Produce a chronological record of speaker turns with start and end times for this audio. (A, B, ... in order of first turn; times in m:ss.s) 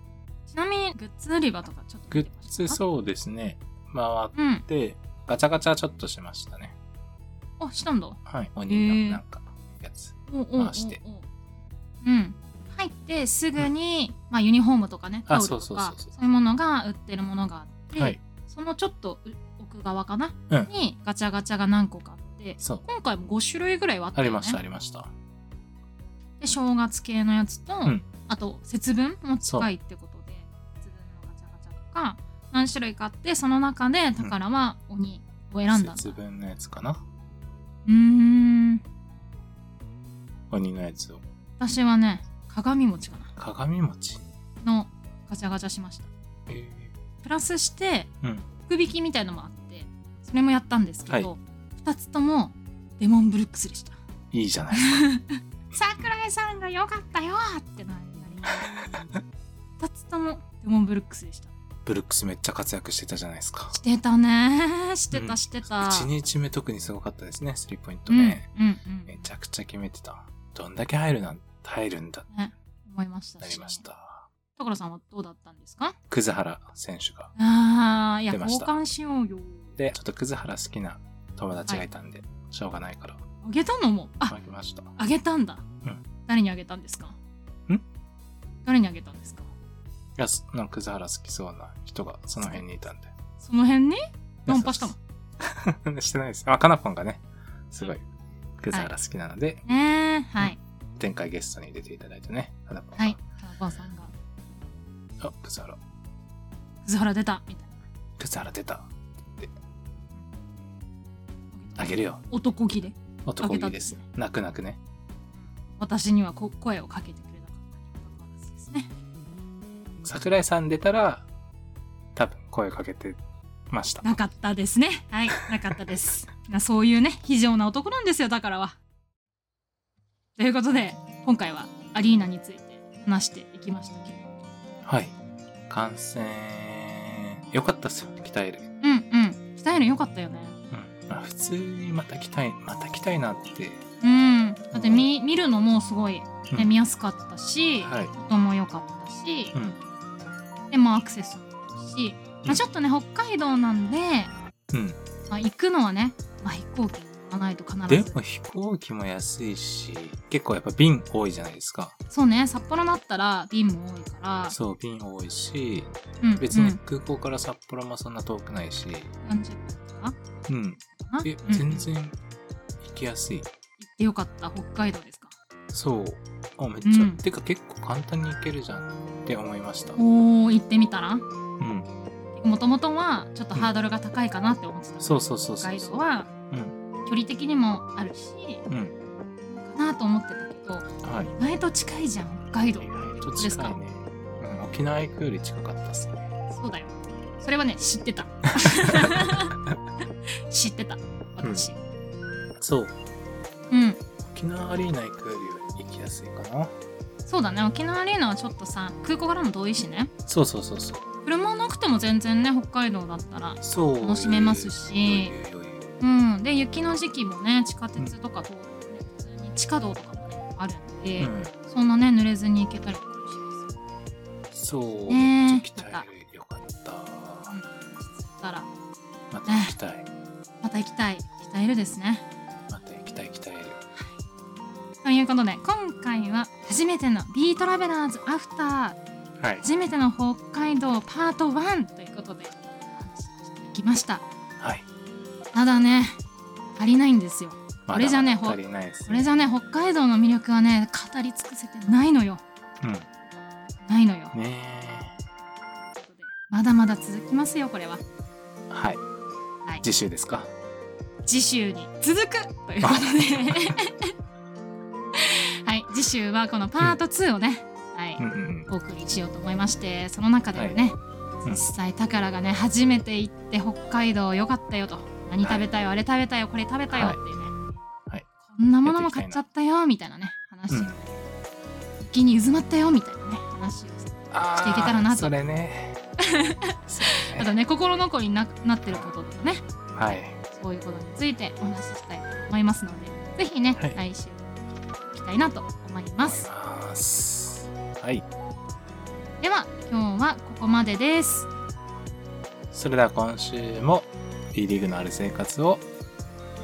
0:00.5-0:02.8 A
0:02.1-0:06.7 B
0:04.3-0:04.6 A
0:07.6-0:09.2 A
0:08.2-0:11.0 B
0:10.3-0:11.2 A
0:12.0-0:24.6 A
0:15.3-0:16.1 B
0:22.6-0:22.8 B
0:24.1-0:25.1 B
0:26.4-0:36.1 A
0:35.7-0:37.0 B
0:37.8-0:38.8 A
0:40.5-0:41.2 B
0:41.6-0:43.3 A
0:43.4-0:44.2 B
0:44.6-0:46.1 A
0:46.5-0:46.9 B
0:47.2-0:48.1 A
0:48.7-0:54.0 A
0:54.3-0:55.1 B
0:54.7-0:59.0 A
0:59.8-1:01.5 A
1:01.8-1:03.8 B
1:03.7-1:06.1 A
1:05.1-1:08.4 B
1:08.1-1:09.2 A
1:09.0-1:12.3 B
1:12.3-1:13.8 A
1:13.4-1:14.3 B
1:14.6-1:16.0 A
1:16.1-1:17.3 B
1:17.4-1:19.8 A
1:18.3-1:18.7 B
1:19.8-1:23.2 B
1:23.4-1:24.4 A
1:24.3-1:24.9 B
1:25.0-1:25.6 A
1:26.3-1:27.2 A
1:28.6-1:29.5 A
1:30.2-1:33.1 B
1:33.4-1:35.0 A
1:34.4-1:38.0 B
1:38.6-1:39.6 B
1:39.6-1:40.6 A
1:40.4-1:43.2 B
1:43.0-1:44.1 A
1:45.2-1:45.8 B
1:46.8-1:47.8 A
1:48.2-1:49.5 B
1:51.5-1:54.0 A
1:51.8-1:52.2 B
1:53.2-1:54.8 B
1:55.5-1:58.9 A
2:00.0-2:01.2 B
2:02.1-2:04.1 B
2:04.0-2:08.8 A
2:05.3-2:05.9 B
2:10.4-2:14.2 A
2:14.8-2:15.1 B
2:15.7-2:18.6 B
2:18.8-2:20.6 A
2:20.7-2:23.8 B
2:24.0-2:29.5 A
2:24.7-2:25.1 B
2:27.8-2:28.1 B
2:29.5-2:29.8 B
2:30.7-2:34.3 A
2:34.7-2:35.0 B
2:35.3-2:38.2 A
2:37.9-2:41.9 B
2:42.1-2:44.5 A
2:44.5-2:49.1 B
2:46.2-2:46.8 A
2:49.2-2:50.2 A
2:50.5-2:52.2 B
2:51.0-2:51.8 A
2:52.8-2:53.5 B
2:53.8-2:55.3 A
2:55.7-3:00.0 B
2:56.8-2:57.2 A
3:00.0-3:01.2 A
3:01.6-3:01.9 B
3:02.4-3:06.3 A
3:05.0-3:06.7 B
3:07.0-3:08.6 A
3:08.7-3:08.9 B
3:09.5-3:13.8 A
3:11.0-3:11.3 B
3:12.8-3:16.3 B
3:16.5-3:19.6 A
3:18.6-3:19.4 B
3:20.4-3:21.8 A
3:21.4-3:21.7 B
3:22.6-3:22.9 B
3:23.7-3:24.0 A
3:24.2-3:26.7 B
3:27.3-3:30.1 A
3:30.3-3:31.0 B
3:31.2-3:35.3 A
3:33.6-3:36.0 B
3:36.0-3:43.7 A
3:41.2-3:41.5 B
3:44.5-3:47.5 B
3:45.1-3:46.1 A
3:47.5-3:48.7 A
3:49.3-3:50.0 B
3:49.5-3:49.7 A
3:50.6-3:52.2 A
3:52.7-3:53.8 B
3:55.0-3:59.0 A
3:59.4-3:59.6 B
3:59.6-4:04.2 A
4:04.6-4:04.8 B
4:05.5-4:06.2 A
4:06.8-4:12.4 A
4:07.9-4:09.3 B
4:12.8-4:13.1 B
4:13.8-4:14.3 A
4:14.3-4:15.2 B
4:15.9-4:18.0 A
4:18.7-4:19.0 B
4:19.8-4:20.5 B
4:21.2-4:24.1 A
4:22.8-4:23.7 B
4:25.1-4:37.5 A
4:28.2-4:28.7 B
4:36.9-4:37.2 B
4:38.5-4:41.2 A
4:38.8-4:39.4 B
4:40.7-4:41.0 B
4:42.0-4:45.3 A
4:44.3-4:46.0 B
4:46.2-4:54.5 A
4:46.9-4:47.5 B
4:49.9-4:50.4 B
4:55.1-4:56.5 A
4:56.2-4:58.2 B
4:59.4-5:01.5 A
5:02.7-5:05.8 B